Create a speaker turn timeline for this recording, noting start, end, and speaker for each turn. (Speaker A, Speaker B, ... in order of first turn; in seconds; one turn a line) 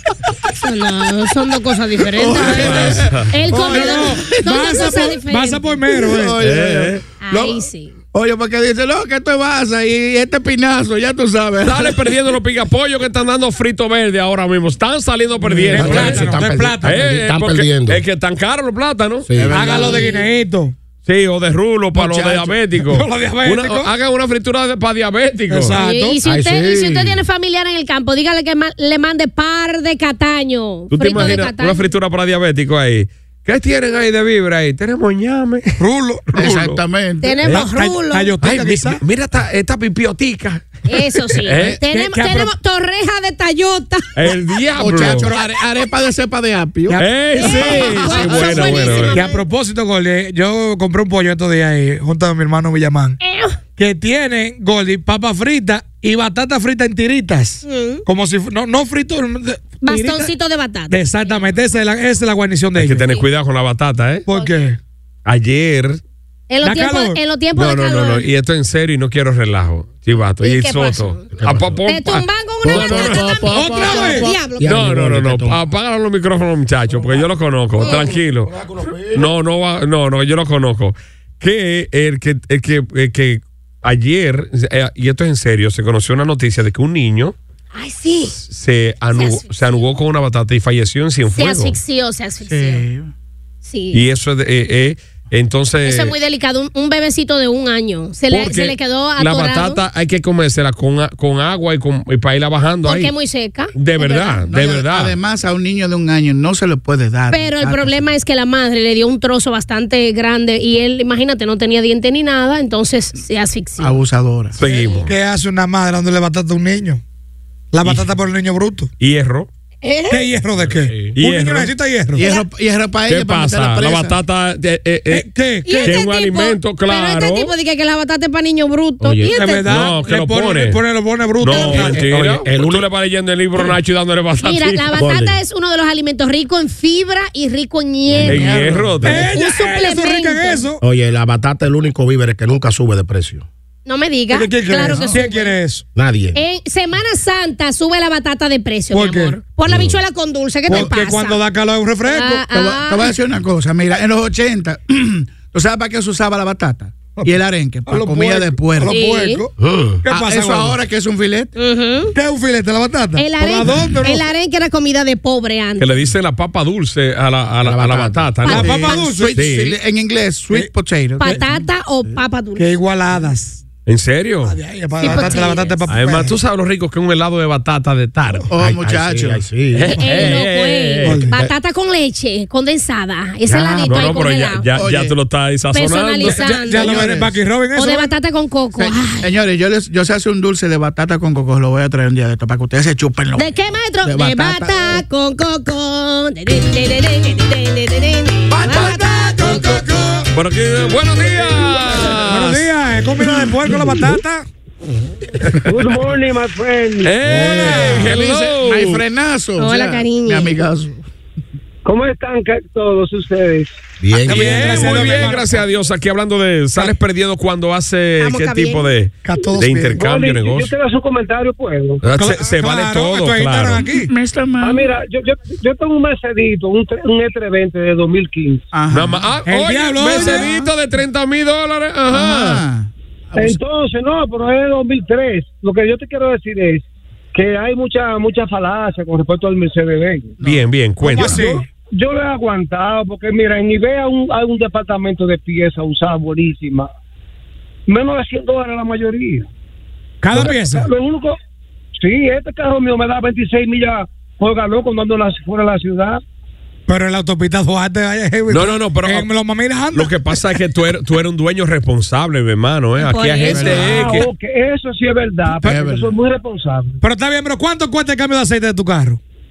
Speaker A: 0.6-6.0
Speaker B: 2.0-3.9
Speaker C: 2.4-3.2
Speaker D: 3.5-6.4
Speaker B: 5.9-7.6
Speaker C: 6.4-7.0
Speaker A: 7.2-7.9
Speaker B: 8.1-12.2
Speaker C: 11.6-16.3
Speaker D: 15.4-17.1
Speaker E: 15.7-18.0
Speaker C: 16.8-19.3
Speaker E: 19.2-20.1
Speaker B: 19.3-20.1
Speaker D: 19.5-20.7
Speaker A: 19.9-20.2
Speaker C: 21.0-25.8
Speaker B: 21.9-22.6
Speaker D: 22.8-23.9
Speaker D: 25.5-26.2
Speaker A: 25.8-31.8
Speaker E: 26.2-27.2
Speaker C: 30.9-35.8
Speaker D: 35.8-36.3
Speaker C: 36.3-36.8
Speaker B: 36.4-37.4
Speaker A: 37.2-38.3
Speaker D: 37.5-39.0
Speaker C: 38.4-40.7
Speaker A: 40.9-44.1
Speaker C: 41.4-41.8
Speaker D: 41.9-42.5
Speaker C: 44.1-45.3
Speaker B: 44.8-49.0
Speaker C: 47.0-49.2
Speaker A: 47.4-49.4
Speaker D: 48.2-53.1
Speaker A: 53.2-53.6
Speaker D: 53.8-60.3
Speaker A: 57.6-58.0
Speaker A: 59.8-61.4
Speaker D: 60.9-63.1
Speaker C: 62.8-64.2
Speaker D: 64.2-64.8
Speaker C: 65.2-66.0
Speaker A: 66.5-68.2
Speaker D: 66.6-67.2
Speaker C: 67.5-73.5
Speaker A: 70.4-71.2
Speaker E: 71.3-71.8
Speaker A: 71.8-74.8
Speaker E: 72.7-73.8
Speaker B: 72.9-74.3
Speaker D: 73.5-74.3
Speaker E: 74.6-75.6
Speaker C: 74.6-78.5
Speaker E: 77.8-79.3
Speaker A: 77.8-78.1
Speaker C: 79.1-87.3
Speaker A: 87.7-88.4
Speaker C: 88.4-91.7
Speaker A: 89.1-89.5
Speaker A: 91.3-92.8
Speaker B: 92.5-93.1
Speaker A: 93.6-94.0
Speaker C: 93.9-96.1
Speaker A: 95.8-99.8
Speaker C: 98.3-103.1
Speaker A: 102.8-104.4
Speaker C: 103.7-105.1
Speaker B: 104.5-108.0
Speaker A: 107.3-114.0
Speaker B: 113.8-114.5
Speaker C: 114.5-115.1
Speaker A: 114.6-115.1
Speaker D: 115.0-117.0
Speaker D: 117.7-118.9
Speaker C: 119.0-119.5
Speaker A: 119.8-120.3
Speaker D: 120.1-122.2
Speaker C: 121.2-121.7
Speaker B: 122.1-124.2
Speaker C: 123.1-127.5
Speaker D: 125.1-126.0
Speaker A: 125.7-129.7
Speaker E: 129.0-129.3
Speaker D: 129.3-132.0
Speaker C: 129.7-130.8
Speaker C: 131.4-134.9
Speaker E: 131.5-132.9
Speaker A: 134.4-138.5
Speaker E: 135.0-135.4
Speaker E: 138.2-138.7
Speaker B: 138.2-139.0
Speaker C: 138.2-139.3
Speaker D: 139.0-140.8
Speaker A: 139.1-140.6
Speaker E: 140.8-143.4
Speaker A: 143.8-145.6
Speaker D: 144.3-145.8
Speaker B: 144.9-145.2
Speaker E: 145.9-146.4
Speaker A: 146.3-151.4
Speaker D: 148.9-149.4
Speaker E: 149.7-150.0
Speaker D: 150.7-152.4
Speaker A: 152.1-153.1
Speaker B: 152.5-158.9
Speaker D: 157.9-160.8
Speaker A: 158.9-159.4
Speaker E: 159.6-160.0
Speaker B: 160.0-161.5
Speaker A: 161.6-162.1
Speaker D: 162.1-164.2
Speaker A: 163.2-165.9
Speaker C: 165.8-169.7
Speaker E: 167.6-168.4
Speaker A: 168.4-169.1
Speaker D: 168.4-169.5
Speaker B: 168.5-171.3
Speaker A: 171.2-172.7
Speaker D: 172.6-173.6
Speaker C: 173.8-174.6
Speaker D: 174.4-176.3
Speaker A: 175.0-175.8
Speaker C: 175.9-178.5
Speaker B: 178.5-179.4
Speaker E: 178.6-179.9
Speaker C: 179.7-181.5
Speaker A: 180.0-184.6
Speaker D: 181.0-181.3
Speaker B: 183.6-184.1
Speaker C: 183.9-186.5
Speaker B: 184.7-185.1
Speaker A: 185.7-187.1
Speaker D: 186.3-188.1
Speaker B: 186.8-187.3
Speaker A: 187.7-189.3
Speaker B: 188.8-193.5
Speaker A: 193.3-199.7
Speaker B: 194.0-195.0
Speaker D: 198.6-200.3
Speaker C: 200.3-202.7
Speaker D: 202.3-204.4
Speaker F: 205.6-207.1
Speaker C: 207.0-209.0
Speaker B: 207.3-211.0
Speaker D: 207.5-208.1
Speaker A: 209.6-210.6
Speaker F: 211.8-213.7
Speaker E: 214.0-215.0
Speaker D: 214.2-215.6
Speaker C: 214.3-220.7
Speaker A: 218.2-218.8
Speaker D: 219.2-220.0
Speaker F: 220.0-222.0
Speaker C: 222.0-223.8
Speaker D: 222.1-224.1
Speaker B: 223.9-224.9
Speaker F: 224.6-228.7
Speaker B: 228.7-229.3
Speaker C: 228.9-232.6
Speaker D: 229.5-230.6
Speaker B: 230.0-230.7
Speaker B: 232.1-233.6
Speaker F: 233.3-240.3
Speaker B: 240.4-240.7
Speaker C: 240.4-241.4
Speaker D: 241.0-241.7
Speaker F: 241.4-246.9
Speaker F: 247.9-249.5
Speaker D: 250.2-250.9
Speaker F: 250.3-251.4
Speaker F: 252.0-256.2
Speaker D: 256.9-260.3
Speaker C: 258.5-259.3
Speaker C: 259.9-264.3
Speaker A: 263.0-263.8
Speaker B: 263.4-264.1
Speaker F: 263.7-267.0
Speaker B: 265.5-266.1
Speaker D: 267.0-269.2